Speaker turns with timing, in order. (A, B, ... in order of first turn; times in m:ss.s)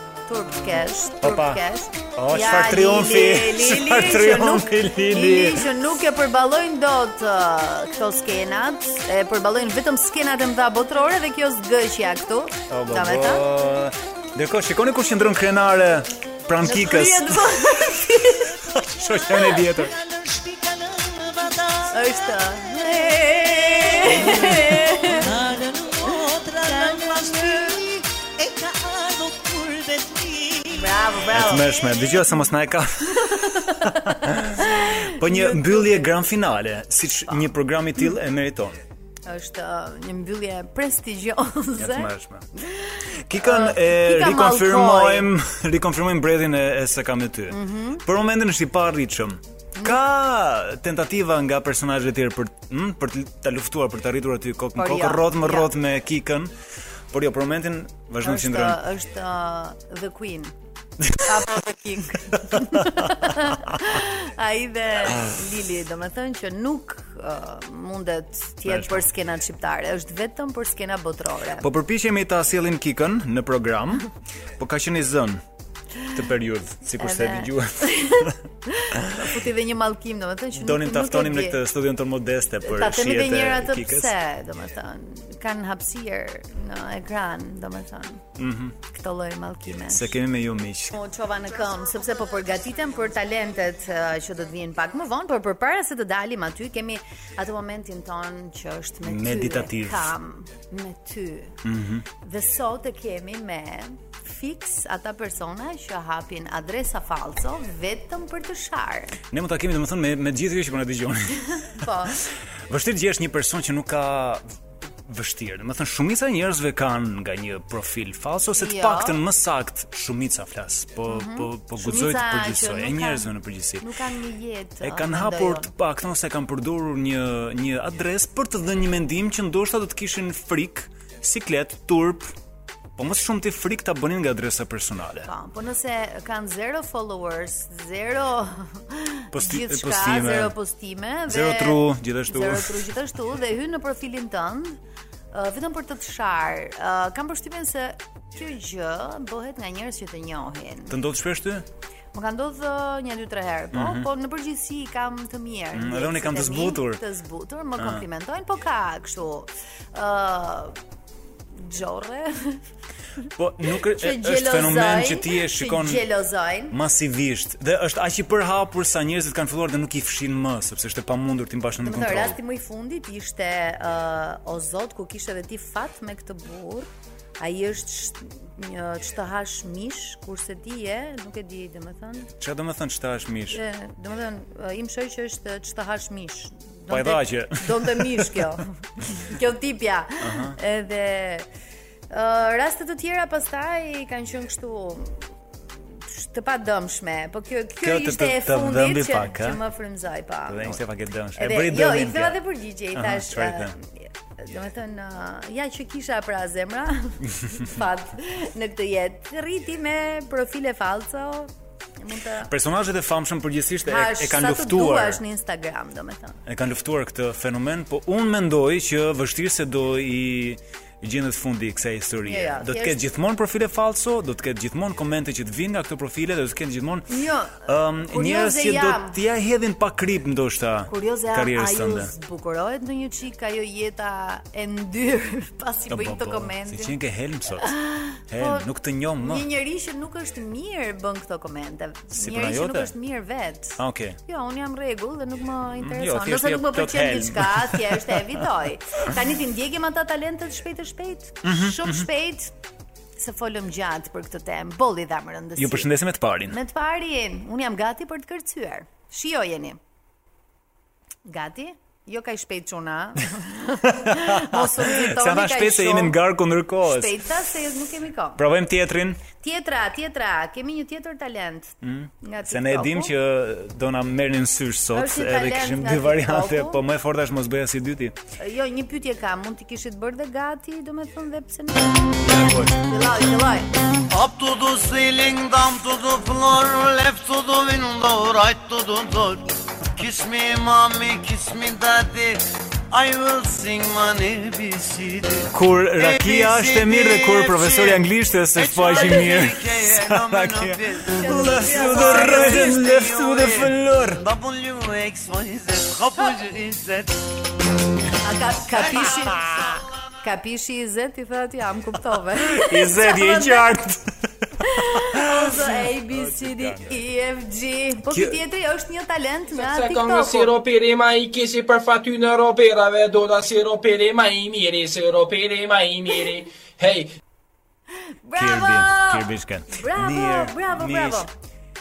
0:00.3-0:13.4 A
0:01.2-0:01.6 B
0:02.2-0:05.6 B
0:12.7-0:17.6 B
0:16.6-0:18.5 A
0:18.7-0:19.9 B
0:20.5-0:21.9 C
0:21.9-0:25.3 A
0:25.4-0:27.8 C
0:26.7-0:27.8 A
0:28.8-0:30.6 C
0:30.7-0:31.9 A
0:31.3-0:38.8 B
0:33.2-0:36.1 A
0:39.2-0:45.3 A
0:41.8-0:42.4 B
0:43.3-0:56.5 B
0:47.5-0:48.0 A
0:54.8-0:55.7 A
0:57.1-0:58.8 B
0:58.2-1:00.5 A
1:01.2-1:11.7 A
1:02.6-1:02.9 B
1:08.6-1:09.0 B
1:11.6-1:15.4 B
1:16.1-1:18.3 B
1:17.0-1:21.6 A
1:20.6-1:24.1 B
1:22.6-1:28.2 A
1:28.4-1:28.7 B
1:28.9-1:30.2 A
1:29.9-1:30.9 B
1:30.9-1:41.6 A
1:39.0-1:40.1 B
1:41.6-1:42.0 B
1:42.2-1:49.2 A
1:49.3-1:51.4 B
1:51.6-1:52.2 A
1:52.7-1:54.4 B
1:55.1-2:03.8 B
1:58.6-1:59.2 A
2:01.1-2:05.7 A
2:04.8-2:12.3 B
2:13.0-2:15.3 B
2:15.3-2:24.8 A
2:19.3-2:20.5 B
2:21.3-2:22.8 B
2:25.3-2:30.9 A
2:30.9-2:31.6 B
2:32.1-2:40.7 A
2:33.7-2:34.1 B
2:35.7-2:37.0 B
2:37.8-2:38.0 B
2:41.5-2:42.6 A
2:43.4-2:46.0 B
2:44.0-2:46.7 A
2:46.7-2:52.4 B
2:51.8-2:56.9 A
2:57.4-3:02.3 A
3:02.4-3:03.6 B
3:03.5-3:11.5 A
3:06.9-3:08.4 B
3:10.2-3:10.6 B
3:12.1-3:15.3 A
3:16.1-3:20.8 A
3:17.8-3:19.6 B
3:20.5-3:22.4 B
3:21.4-3:32.5 A
3:22.9-3:23.7 B
3:32.5-3:35.2 B
3:33.8-3:36.4 A
3:36.4-3:47.0 B
3:42.2-3:43.1 A
3:47.1-3:49.2 A
3:47.6-3:52.1 B
3:50.9-3:56.9 A
3:55.9-3:57.7 B
3:57.6-3:58.7 A
3:58.3-3:59.4 B
3:59.2-4:12.5 A
4:02.1-4:02.9 B
4:03.8-4:04.2 B
4:05.8-4:08.2 B
4:11.4-4:12.1 B
4:13.2-4:15.9 A
4:15.6-4:16.6 B
4:16.5-4:19.8 A
4:21.3-4:26.2 A
4:24.1-4:27.2 B
4:26.8-4:28.4 A
4:28.4-4:29.2 B
4:29.4-4:33.1 A
4:31.8-4:38.1 B
4:34.9-4:36.8 A
4:38.4-4:43.7 A
4:42.3-4:42.7 B
4:44.1-5:07.2 C
4:55.5-5:04.2 B
5:01.1-5:03.0 A
5:08.2-5:13.7 A
5:08.8-5:09.8 C
5:12.5-5:14.0 B
5:14.6-5:20.5 A
5:15.0-5:17.0 B
5:18.1-5:18.4 B
5:19.5-5:27.1 D
5:28.2-5:31.3 A
5:28.4-5:31.2 B